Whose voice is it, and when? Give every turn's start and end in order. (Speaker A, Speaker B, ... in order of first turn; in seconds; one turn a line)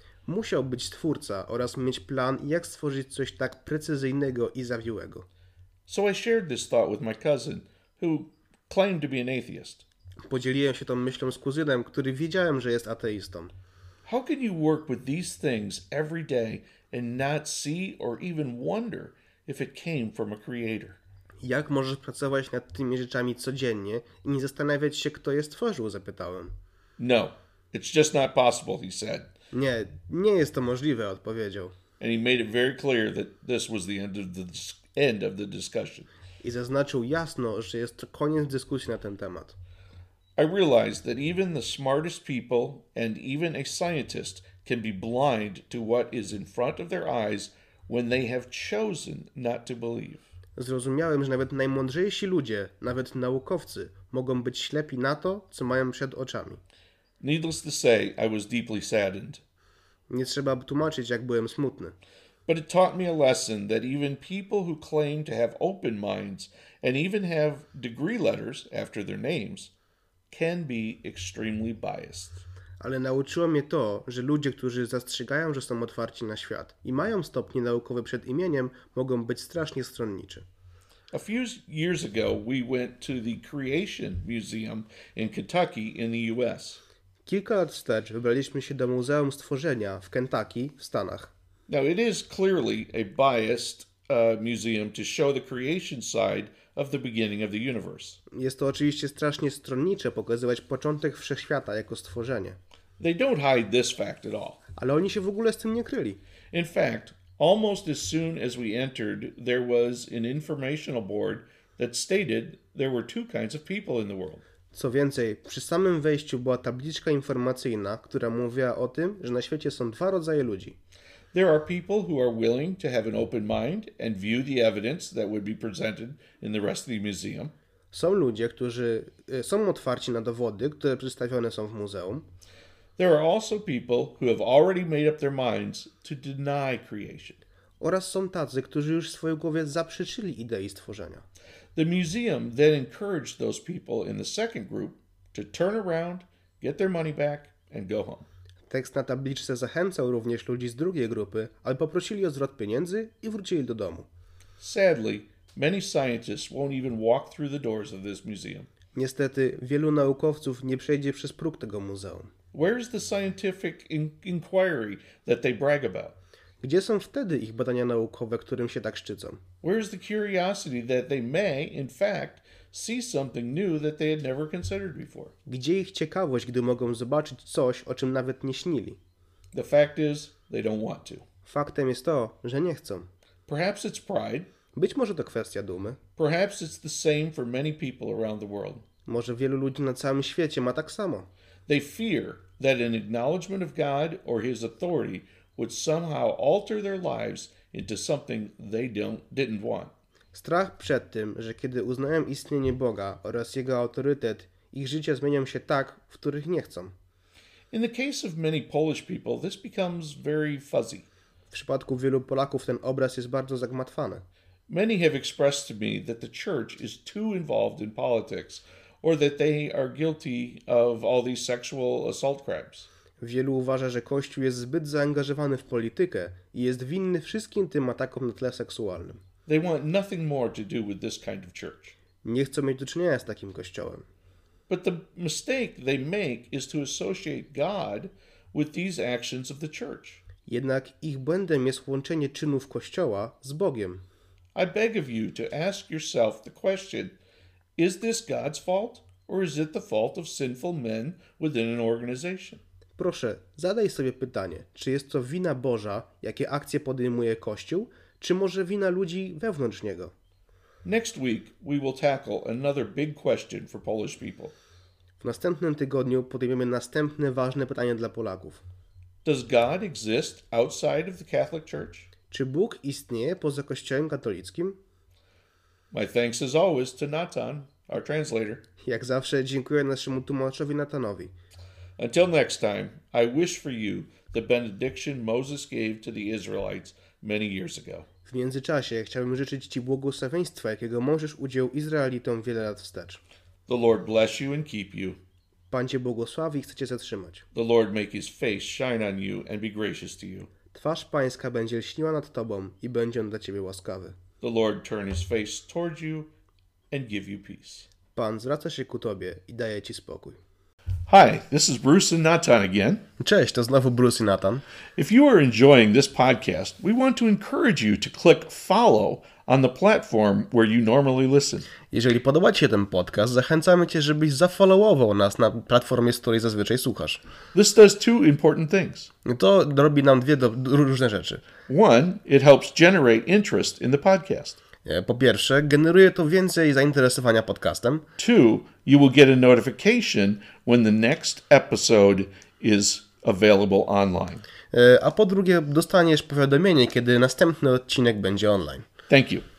Speaker A: 0.2-5.2
Speaker B: 5.9-9.8
Speaker A: 10.3-13.5
Speaker B: 14.0-21.0
Speaker A: 21.4-26.5
Speaker B: 27.0-29.3
Speaker A: 29.5-31.7
Speaker B: 32.0-36.1
Speaker A: 36.4-39.5
Speaker B: 40.4-50.2
Speaker A: 50.5-56.6
Speaker B: 57.2-59.4
Speaker A: 60.1-61.9
Speaker B: 62.5-69.7
Speaker B: 70.3-72.4
Speaker A: 72.8-80.5
Speaker B: 81.1-86.8
Speaker A: 87.2-91.3
Speaker B: 91.7-98.2
Speaker A: 98.3-102.6
Speaker B: 103.0-104.6
Speaker A: 104.8-106.2
Speaker B: 106.5-114.4
Speaker A: 114.7-120.8
Speaker B: 121.3-127.5
Speaker A: 127.9-132.3
Speaker B: 133.0-137.4
Speaker A: 137.8-141.2
Speaker B: 141.8-148.3
Speaker A: 148.7-154.1
Speaker B: 154.6-158.7
Speaker A: 158.9-162.3
Speaker B: 162.5-166.2
Speaker A: 166.6-169.4
Speaker B: 169.6-175.3
Speaker A: 175.5-179.0
Speaker B: 179.5-181.2
Speaker A: 181.5-183.1
Speaker B: 183.5-184.5
Speaker A: 184.7-186.0
Speaker B: 186.2-188.8
Speaker A: 189.1-191.3
Speaker B: 191.7-199.9
Speaker A: 200.3-206.9
Speaker B: 207.7-211.1
Speaker A: 211.5-214.2
Speaker B: 214.7-222.9
Speaker A: 223.2-229.2
Speaker B: 229.5-231.9
Speaker A: 232.2-234.1
Speaker B: 234.7-240.2
Speaker A: 240.5-244.0
Speaker B: 244.5-247.2
Speaker B: 247.8-252.6
Speaker A: 253.0-260.1
Speaker B: 260.8-264.5
Speaker A: 265.2-268.6
Speaker B: 269.2-272.1
Speaker A: 272.3-274.8
Speaker B: 275.9-278.6
Speaker A: 278.8-281.3
Speaker B: 282.0-288.1
Speaker A: 288.2-293.2
Speaker B: 293.7-295.2
Speaker A: 295.7-297.4
Speaker B: 297.5-300.5
Speaker A: 300.7-304.1
Speaker B: 304.4-306.3
Speaker B: 306.9-307.9
Speaker A: 308.1-310.4
Speaker B: 311.1-313.0
Speaker A: 313.2-314.6
Speaker B: 315.0-321.7
Speaker A: 321.9-327.2
Speaker B: 327.5-329.1
Speaker A: 329.2-331.4
Speaker B: 331.7-334.6
Speaker A: 334.8-338.0
Speaker B: 338.2-344.4
Speaker A: 344.7-348.9
Speaker B: 349.1-349.4